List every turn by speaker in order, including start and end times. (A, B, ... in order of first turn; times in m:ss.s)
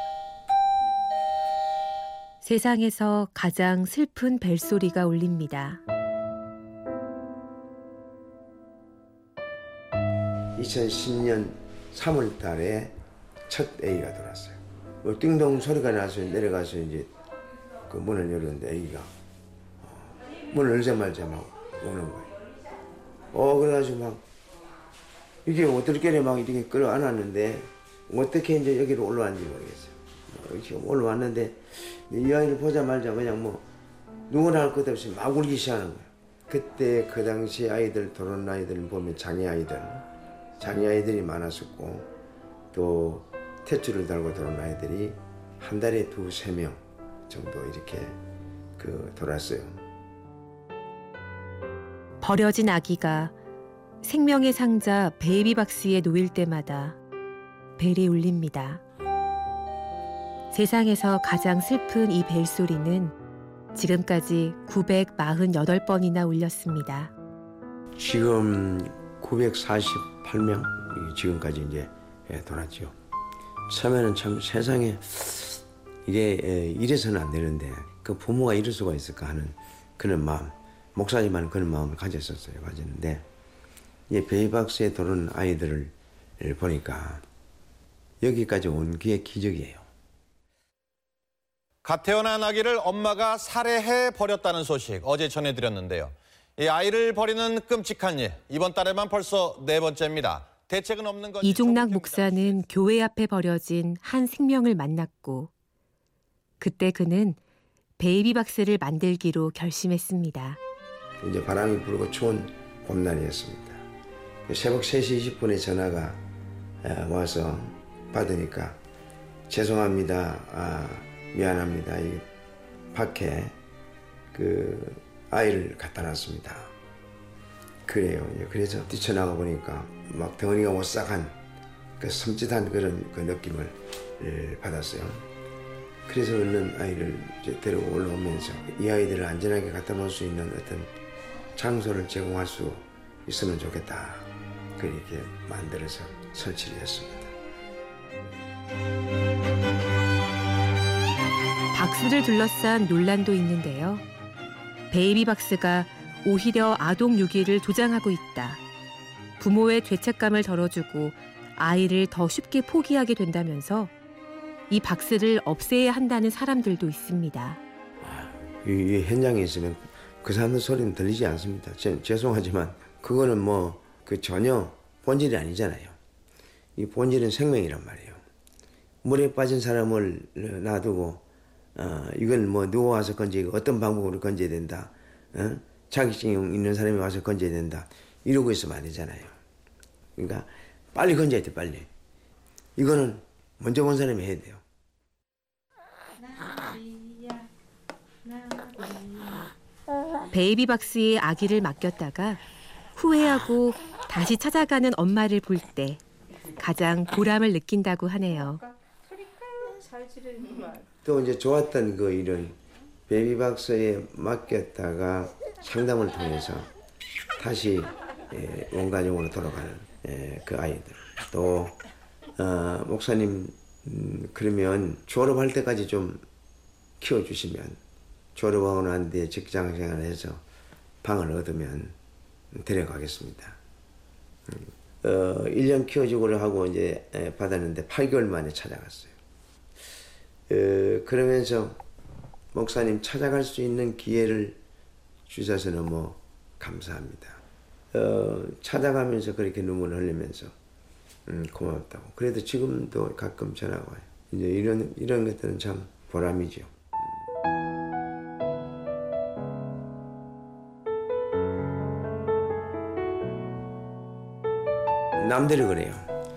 0:02.4-0:05.8 A
0:10.6-0:13.0 B
0:13.5-0:17.1 B
0:17.9-0:19.1 B
0:19.8-0:22.3 B
0:23.3-0:24.2 B
0:25.4-0:33.6 B
0:34.3-0:40.1 B
0:40.6-0:42.1 B
0:42.7-0:48.2 B
0:48.8-0:49.8 B
0:52.2-0:53.3 A
0:54.0-0:57.0 A
0:57.8-0:58.8 A
1:00.5-1:03.1 A
1:03.8-1:07.1 A
1:08.0-1:12.9 B
1:13.7-1:23.2 B
1:24.1-1:27.2 B
1:28.2-1:29.8 B
1:31.8-1:42.6 C
1:41.4-1:45.5 A
1:46.6-1:47.4 A
1:48.0-1:50.6 A
1:51.2-1:53.8 B
1:54.5-1:56.2 B
1:56.8-1:58.8 B
1:59.5-2:02.2 B
2:02.9-2:03.6 B
2:04.3-2:06.7 B
2:07.9-2:11.4 B
2:12.0-2:15.2 B
2:16.1-2:20.9 B
2:21.6-2:27.3 B
2:31.7-2:34.0 A
2:34.9-2:38.6 A
2:39.4-2:43.9 A
2:44.7-2:47.6 A
2:48.0-2:56.0 B
2:56.8-2:58.2 B
2:59.0-3:01.2 B
3:01.8-3:09.4 B
3:10.2-3:11.9 B
3:12.8-3:14.6 B
3:20.3-3:22.4 A
3:23.0-3:26.0 A
3:26.6-3:28.6 A
3:31.0-3:36.7 B
3:37.4-3:41.8 B
3:42.4-3:46.2 B
3:47.0-3:47.8 B
3:48.4-3:50.4 B
3:51.0-3:52.0 B
3:52.5-3:53.6 B
3:54.5-3:59.1 B
4:00.5-4:01.8 B
4:02.5-4:04.6 B
4:05.3-4:07.4 B
4:07.9-4:10.5 B
4:11.3-4:16.9 B
4:25.2-4:26.1 B